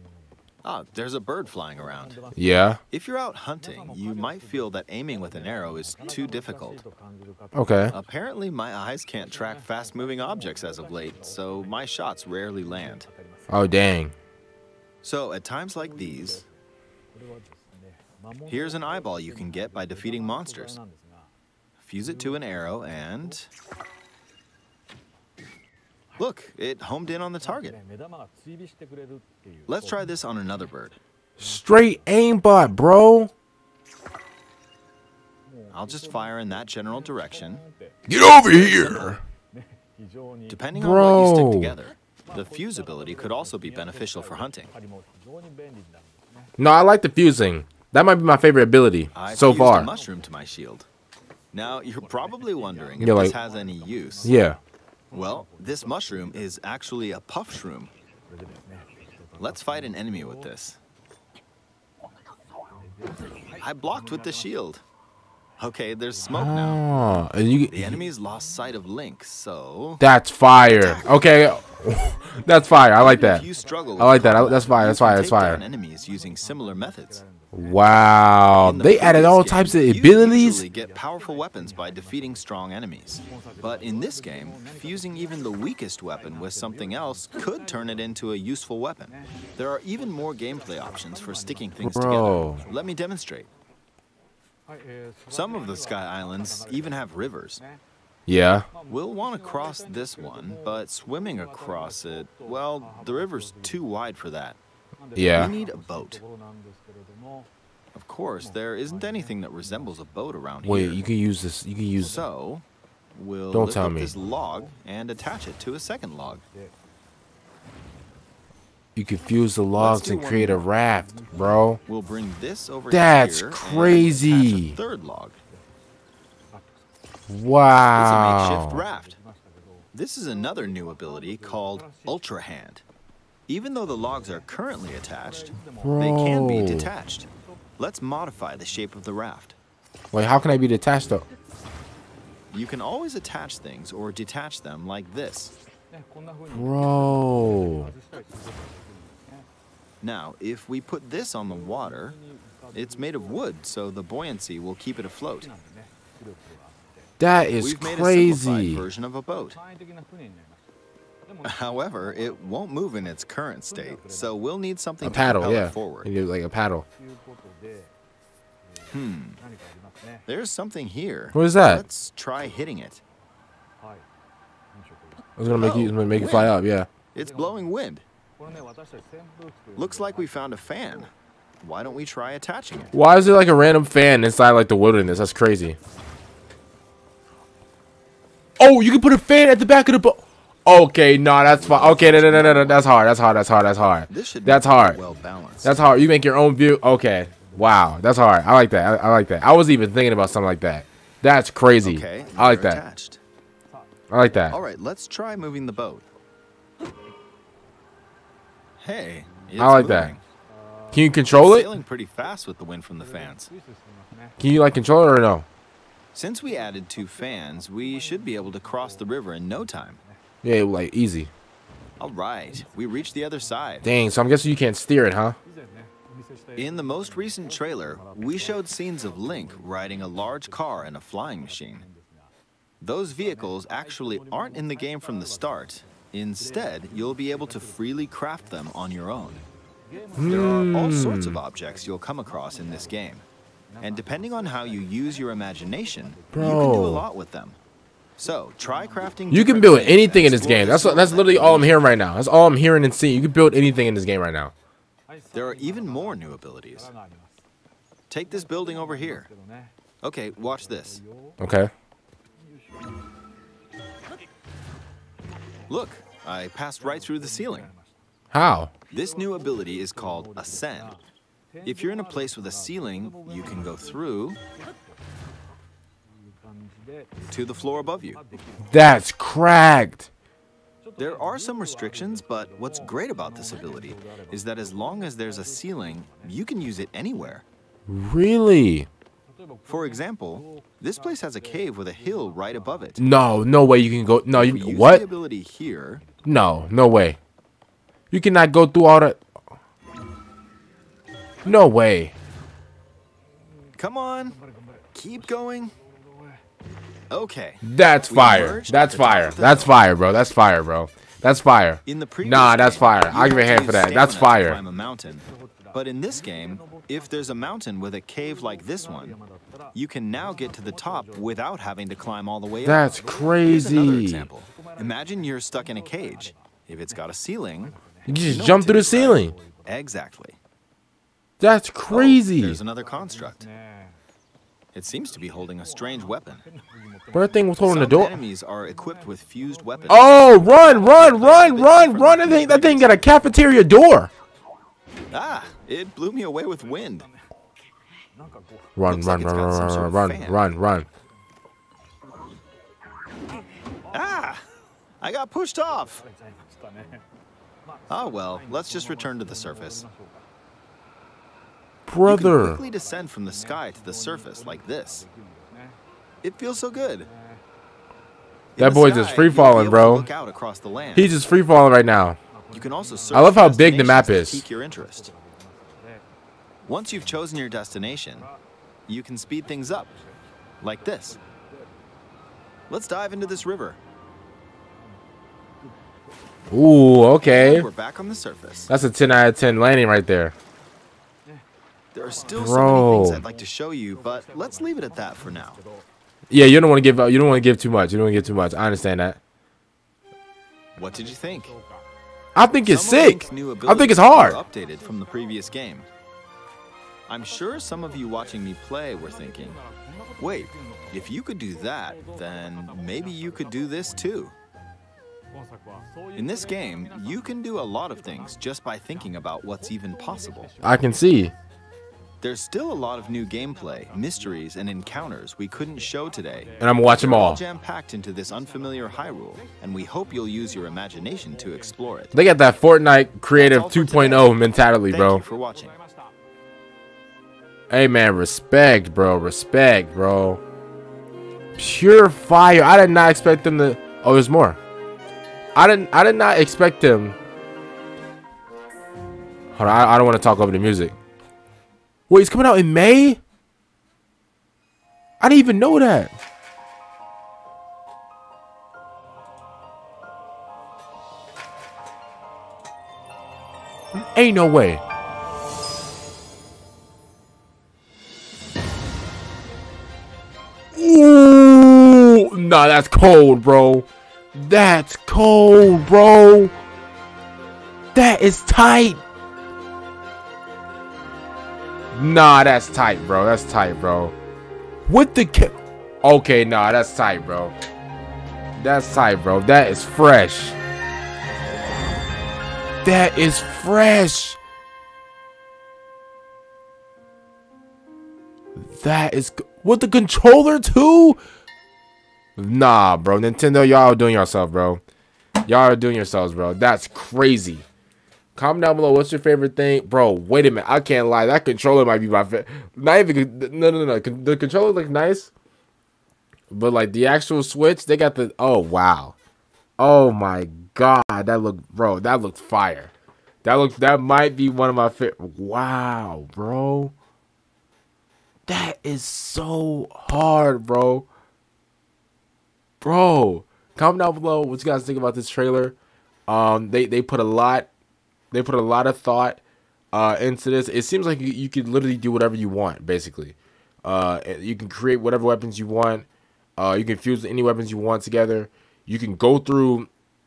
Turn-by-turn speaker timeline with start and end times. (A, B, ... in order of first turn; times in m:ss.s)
0:00.6-0:02.2 A
0:02.4-0:02.8 B
0:02.9-0:06.8 A
0:07.5-0:07.9 B
0:07.9-0:13.1 A
0:13.5-0:14.1 B
0:15.0-0:16.4 A
0:18.5-0:20.8 A
0:21.8-0:23.5 A
0:26.2-0:27.8 A
0:29.7-0:31.0 A
0:31.4-0:33.3 B
0:35.7-0:37.6 A
0:38.1-0:39.2 B
0:40.5-0:44.7 A
0:40.8-0:41.8 B
0:46.6-0:49.9 B
0:49.1-0:50.9 A
0:51.5-0:54.3 A
0:53.0-0:53.4 B
0:54.2-0:54.6 B
0:55.1-0:57.9 A
0:59.4-1:00.8 A
1:03.6-1:04.8 A
1:05.6-1:06.8 A
1:06.3-1:08.0 B
1:07.7-1:10.1 A
1:10.0-1:13.5 B
1:10.7-1:11.3 A
1:12.9-1:17.2 A
1:14.0-1:15.6 B
1:17.5-1:20.6 B
1:18.6-1:33.5 A
1:31.8-1:32.6 B
1:35.3-1:37.6 A
1:38.3-1:38.7 B
1:38.9-1:44.6 A
1:45.2-1:45.5 B
1:45.3-1:46.2 A
1:47.9-1:51.0 A
1:50.6-1:52.2 B
1:52.0-1:56.4 A
1:53.5-1:54.1 B
1:59.0-2:01.8 B
1:59.8-2:00.7 A
2:01.8-2:05.4 A
2:02.9-2:04.8 B
2:07.3-2:08.8 B
2:07.9-2:09.2 A
2:09.9-2:12.8 A
2:13.5-2:19.6 A
2:15.8-2:16.9 B
2:20.1-2:21.2 B
2:22.5-2:25.6 A
2:26.5-2:27.9 B
2:30.0-2:32.2 A
2:32.7-2:35.5 A
2:37.2-2:38.8 B
2:37.6-2:39.6 A
2:41.4-2:46.1 A
2:45.0-2:46.8 B
2:48.9-2:49.4 A
2:50.3-2:53.0 A
2:51.3-2:51.8 B
2:55.4-2:56.9 B
2:55.6-2:56.6 A
2:57.1-2:58.0 A
2:59.8-3:03.0 A
3:02.9-3:05.8 B
3:08.6-3:15.0 B
3:11.5-3:12.9 A
3:14.1-3:15.8 A
3:15.6-3:22.8 B
3:21.8-3:23.2 A
3:24.1-3:24.6 B
3:24.5-3:26.1 A
3:28.8-3:30.2 A
3:29.6-3:30.1 B
3:30.9-3:31.7 B
3:31.3-3:33.5 A
3:34.4-3:35.5 B
3:36.1-3:40.0 A
3:40.4-3:41.3 B
3:42.0-3:43.9 A
3:43.8-3:45.4 B
3:46.6-3:51.9 A
3:52.8-3:59.4 A
4:00.2-4:01.4 B
4:00.3-4:03.2 A
4:03.8-4:07.6 A
4:06.3-4:07.0 B
4:08.2-4:11.8 A
4:09.3-4:14.5 B
4:15.3-4:16.9 A
4:18.1-4:19.3 A
4:20.0-4:21.0 A
4:21.4-4:21.7 B
4:25.7-4:27.7 A
4:28.3-4:28.7 B
4:28.9-4:31.0 A
4:31.6-4:34.4 A
4:37.3-4:38.2 A
4:38.7-4:40.1 B
4:41.0-4:47.4 A
4:47.9-4:48.9 B
4:49.7-4:53.0 A
4:53.0-4:55.0 B
4:54.3-4:56.0 A
4:56.2-4:57.2 B
4:58.1-4:59.2 B
5:01.4-5:02.1 B
5:03.8-5:04.4 A
5:04.9-5:05.8 A
5:07.1-5:09.8 A
5:07.6-5:14.6 B
5:11.8-5:19.2 A
5:19.7-5:22.8 A
5:22.6-5:24.3 B
5:23.4-5:30.4 A
5:28.1-5:29.4 B
5:31.4-5:32.6 B
5:31.9-5:33.5 A
5:34.7-5:36.4 A
5:37.1-5:38.2 B
5:37.6-5:43.1 A
5:39.9-5:44.1 B
5:45.1-5:47.1 A
5:48.8-5:50.9 B
5:48.9-5:50.4 A
5:53.9-5:54.4 A
5:55.0-5:56.0 A
5:57.9-5:59.9 A
6:01.9-6:02.6 B
6:02.0-6:05.1 A
6:06.2-6:07.1 A
6:08.6-6:11.1 A
6:08.6-6:10.1 B
6:11.0-6:12.2 B
6:12.5-6:15.1 A
6:13.1-6:14.4 B
6:16.7-6:18.3 A
6:18.9-6:19.9 A
6:20.6-6:21.2 A
6:22.7-6:23.8 A
6:26.5-6:27.7 B
6:27.2-6:28.7 A
6:28.7-6:30.3 B
6:31.9-6:35.6 A
6:32.3-6:33.2 B
6:36.3-6:39.2 B
6:40.8-6:41.6 A
6:42.4-6:44.4 B
6:42.7-6:45.9 A
6:47.1-6:49.6 A
6:50.2-6:54.4 A
6:56.2-7:00.5 A
7:00.6-7:01.3 B
7:02.2-7:12.2 A
7:06.6-7:07.4 B
7:12.1-7:15.2 B
7:13.3-7:15.8 A
7:17.7-7:20.4 B
7:21.6-7:24.6 B
7:25.6-7:27.2 B
7:29.6-7:30.9 B
7:32.1-7:33.2 B
7:35.2-7:36.1 B
7:43.9-7:44.8 B
7:50.7-7:56.5 B
7:58.0-7:59.0 B
8:01.9-8:04.1 B
8:04.9-8:07.5 B
8:08.6-8:10.6 B
8:12.8-8:14.4 B
8:18.6-8:21.2 B
8:22.4-8:24.8 B
8:25.5-8:27.6 B
8:28.4-8:35.3 B
8:36.5-8:39.2 B
8:39.8-8:42.9 B
8:43.4-8:46.9 B
8:48.5-8:51.1 B
8:52.8-8:55.8 B
8:56.3-8:57.7 B
8:58.3-8:59.4 B
8:59.9-9:06.1 B
9:06.6-9:09.9 B